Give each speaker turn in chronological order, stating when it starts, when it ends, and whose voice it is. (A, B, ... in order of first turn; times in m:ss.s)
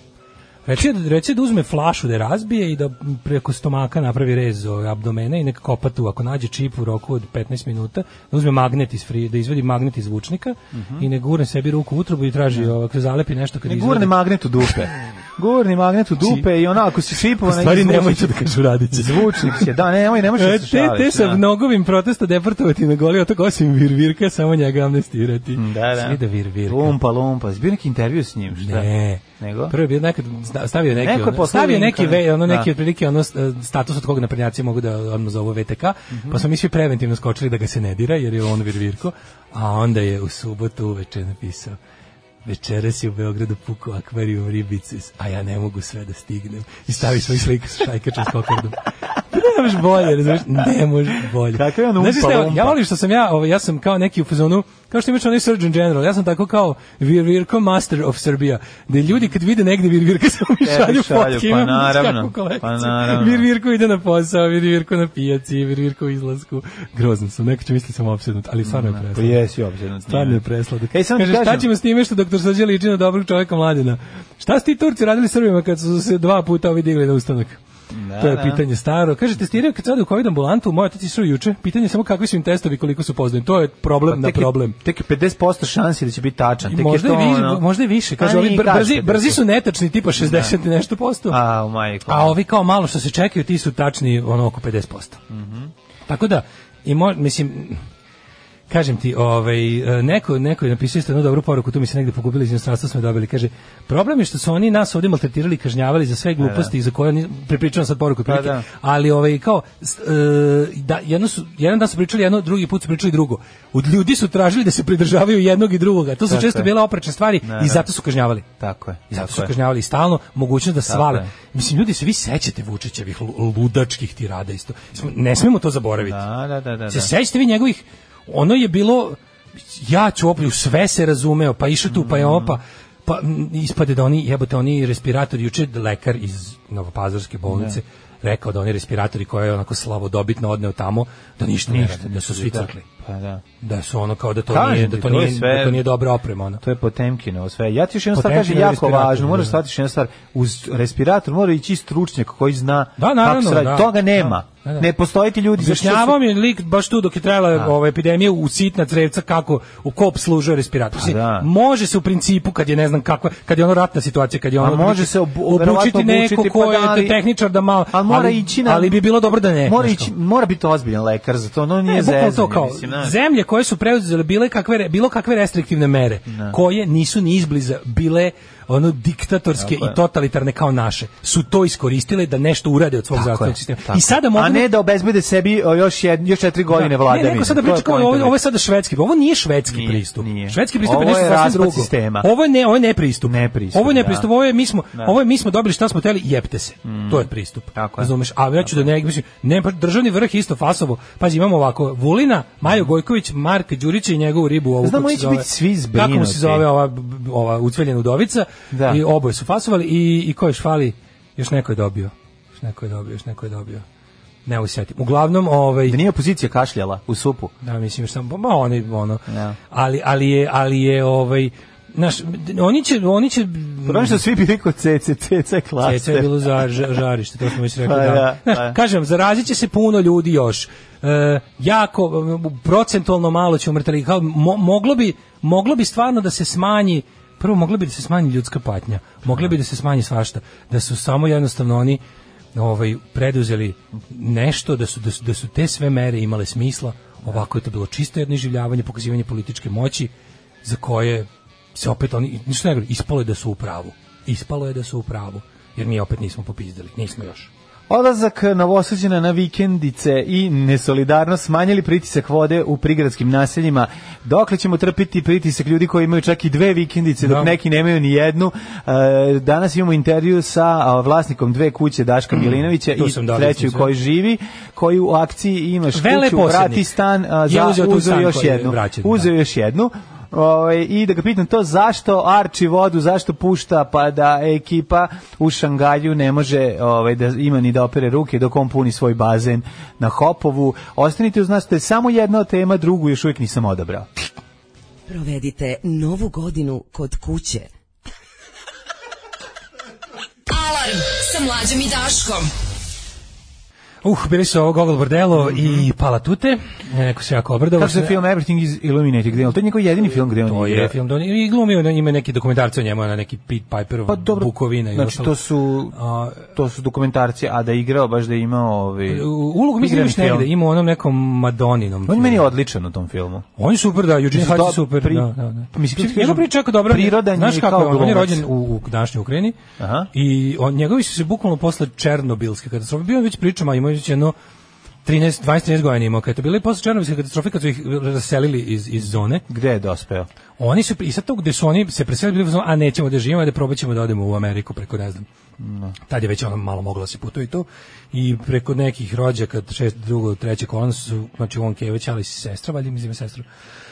0:00.6-0:14.2 A
0:10.7-0:11.0 B
0:13.6-0:21.4 B
0:16.2-0:16.4 A
0:17.3-0:19.6 A
0:20.4-0:26.9 A
0:25.5-0:29.7 B
0:28.5-0:41.8 A
0:31.0-0:32.7 B
0:36.1-0:36.4 B
0:42.4-1:09.4 A
0:51.5-0:52.8 B
1:00.6-1:03.4 B
1:08.6-1:11.7 B
1:10.1-1:17.6 A
1:17.9-1:18.6 B
1:18.2-1:24.8 A
1:24.1-1:27.6 B
1:26.7-1:31.4 A
1:28.2-1:29.4 B
1:30.2-1:30.5 B
1:31.3-1:32.4 B
1:32.1-1:35.2 A
1:35.3-1:35.7 B
1:36.1-1:37.8 A
1:38.7-1:58.4 A
1:46.4-1:46.7 B
1:48.2-1:48.7 B
1:56.3-1:56.7 B
1:57.4-1:57.9 B
1:58.6-1:59.5 B
1:59.1-2:06.2 A
2:00.8-2:01.3 B
2:06.0-2:07.1 B
2:06.9-2:09.2 A
2:09.7-2:22.8 A
2:11.9-2:12.6 B
2:17.5-2:17.8 B
2:21.7-2:23.4 B
2:23.6-2:26.6 A
2:24.5-2:25.9 B
2:26.6-2:36.2 B
2:28.1-2:29.6 A
2:33.0-2:34.9 A
2:35.6-2:50.1 A
2:40.9-2:41.5 B
2:44.6-2:47.2 B
2:47.9-2:49.0 B
2:49.6-2:53.2 B
2:51.8-3:04.7 A
2:56.3-2:56.6 B
2:59.6-3:00.0 B
3:03.1-3:08.4 B
3:06.7-3:33.8 A
3:09.7-3:12.3 B
3:13.2-3:14.3 B
3:16.8-3:18.9 B
3:22.6-3:22.9 B
3:24.8-3:26.7 B
3:28.7-3:29.0 B
3:34.4-3:36.0 A
3:35.9-3:37.5 B
3:37.6-3:44.2 A
3:39.3-3:39.6 B
3:43.8-3:46.4 B
3:45.8-4:02.0 A
3:47.8-3:48.8 B
4:02.5-4:10.1 A
4:10.6-4:17.5 A
4:17.9-4:54.1 B
4:27.2-4:27.5 A
4:32.9-4:33.9 A
4:35.9-4:36.9 A
4:37.4-4:39.3 A
4:55.1-4:57.7 C
5:00.5-5:02.5 D
5:04.0-5:08.2 A
5:05.4-5:05.8 B
5:07.8-5:10.9 B
5:10.5-5:15.4 A
5:14.1-5:20.5 B
5:15.9-5:16.5 A
5:19.1-5:22.4 A
5:22.1-5:23.4 B
5:23.6-5:29.6 A
5:24.3-5:28.4 B
5:29.8-5:30.1 B
5:30.1-5:34.3 A
5:35.0-5:39.4 A
5:39.0-5:40.3 B
5:40.6-5:45.2 A
5:45.6-5:45.9 B
5:46.1-5:53.4 A